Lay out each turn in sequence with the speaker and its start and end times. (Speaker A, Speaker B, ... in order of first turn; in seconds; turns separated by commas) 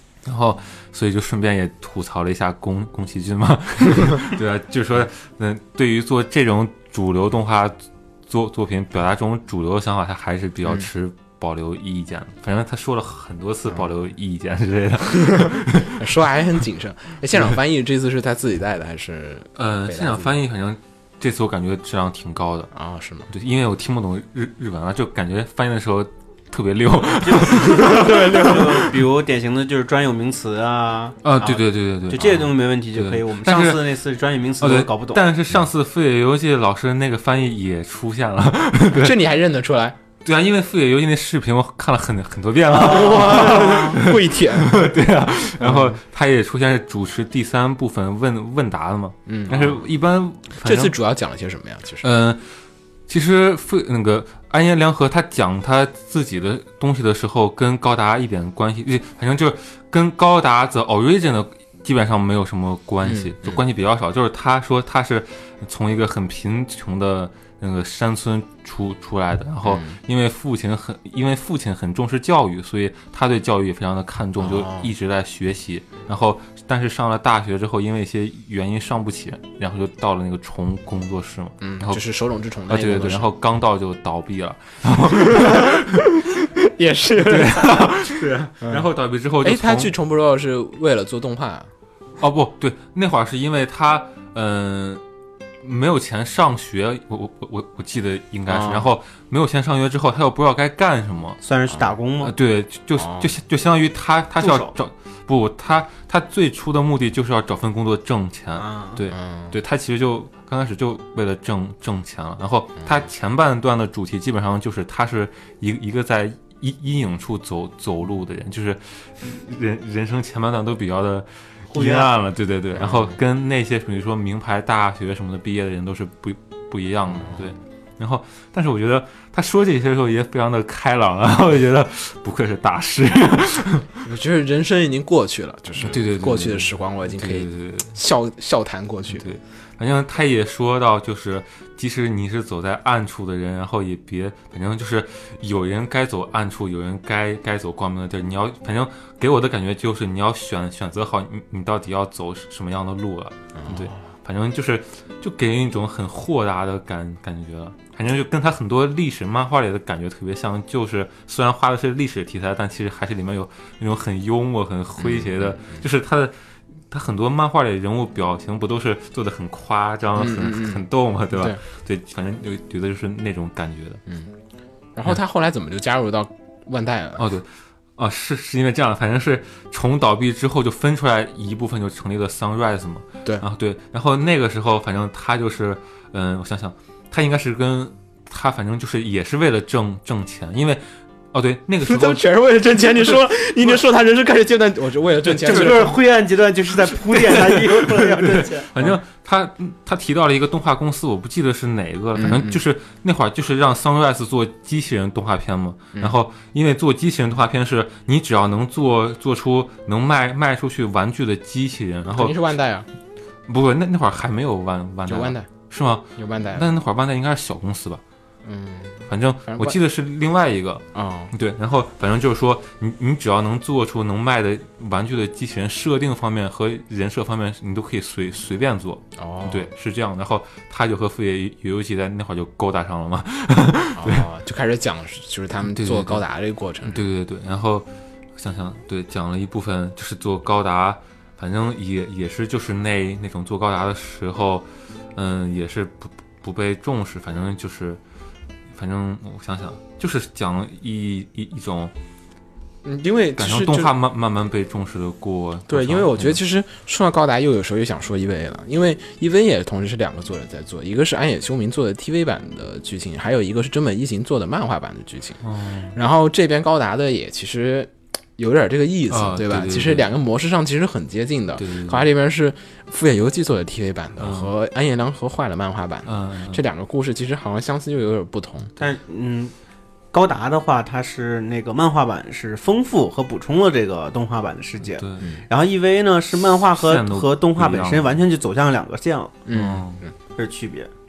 Speaker A: 0.2-7.7, Speaker A: 8.3-16.0, Speaker B: 16.0-20.3, Speaker A: 19.6-22.7, Speaker B: 22.7-23.3, Speaker A: 23.3-28.9, Speaker C: 27.2-35.3, Speaker A: 31.2-33.9, Speaker A: 34.6-39.2, Speaker B: 38.9-40.0, Speaker A: 40.2-50.9, Speaker C: 42.7-43.4, Speaker B: 42.7-44.8, Speaker B: 45.6-46.0, Speaker B: 49.3-49.8, Speaker B: 50.6-52.0, Speaker A: 52.0-52.5, Speaker A: 53.1-82.0, Speaker B: 63.0-63.6, Speaker B: 69.6-70.0, Speaker B: 74.4-74.9, Speaker B: 81.6-83.3, Speaker A: 82.7-86.0, Speaker B: 85.2-85.7, Speaker B: 86.7-88.0, Speaker A: 87.2-89.9, Speaker B: 89.4-91.7, Speaker A: 92.2-95.0, Speaker A: 95.6-101.4, Speaker B: 98.5-98.9, Speaker C: 101.4-102.3, Speaker A: 102.2-134.0, Speaker B: 103.0-103.3, Speaker C: 104.4-104.7, Speaker C: 108.5-109.0, Speaker B: 109.1-109.6, Speaker C: 121.7-122.1, Speaker B: 122.8-123.2, Speaker B: 127.1-127.4, Speaker B: 134.0-139.2, Speaker A: 135.8-137.9, Speaker A: 139.1-166.3, Speaker B: 153.6-153.9, Speaker B: 165.0-165.8, Speaker A: 166.9-174.0, Speaker B: 170.2-171.6, Speaker B: 174.9-177.2, Speaker A: 177.2-192.3, Speaker B: 191.8-195.9, Speaker C: 195.4-198.7, Speaker A: 195.4-195.8, Speaker A: 197.9-212.6, Speaker B: 202.2-202.6, Speaker B: 212.1-212.9, Speaker A: 213.5-218.0, Speaker B: 215.1-215.5, Speaker B: 216.2-216.7, Speaker B: 218.4-219.8, Speaker A: 219.1-234.2, Speaker B: 220.9-221.3, Speaker B: 229.2-229.7, Speaker B: 233.9-237.0, Speaker A: 235.6-236.2, Speaker A: 236.8-248.0, Speaker A: 248.7-251.9, Speaker B: 252.8-253.9, Speaker A: 253.4-256.4, Speaker B: 255.7-265.4, Speaker A: 265.4-265.9, Speaker B: 265.9-278.7, Speaker A: 269.1-270.1, Speaker A: 271.6-272.1, Speaker A: 274.2-274.5, Speaker A: 276.1-276.6, Speaker C: 278.8-279.5, Speaker C: 280.1-289.4, Speaker A: 284.9-285.3, Speaker A: 286.7-288.2, Speaker B: 289.4-290.1, Speaker A: 289.5-290.0, Speaker C: 290.4-290.9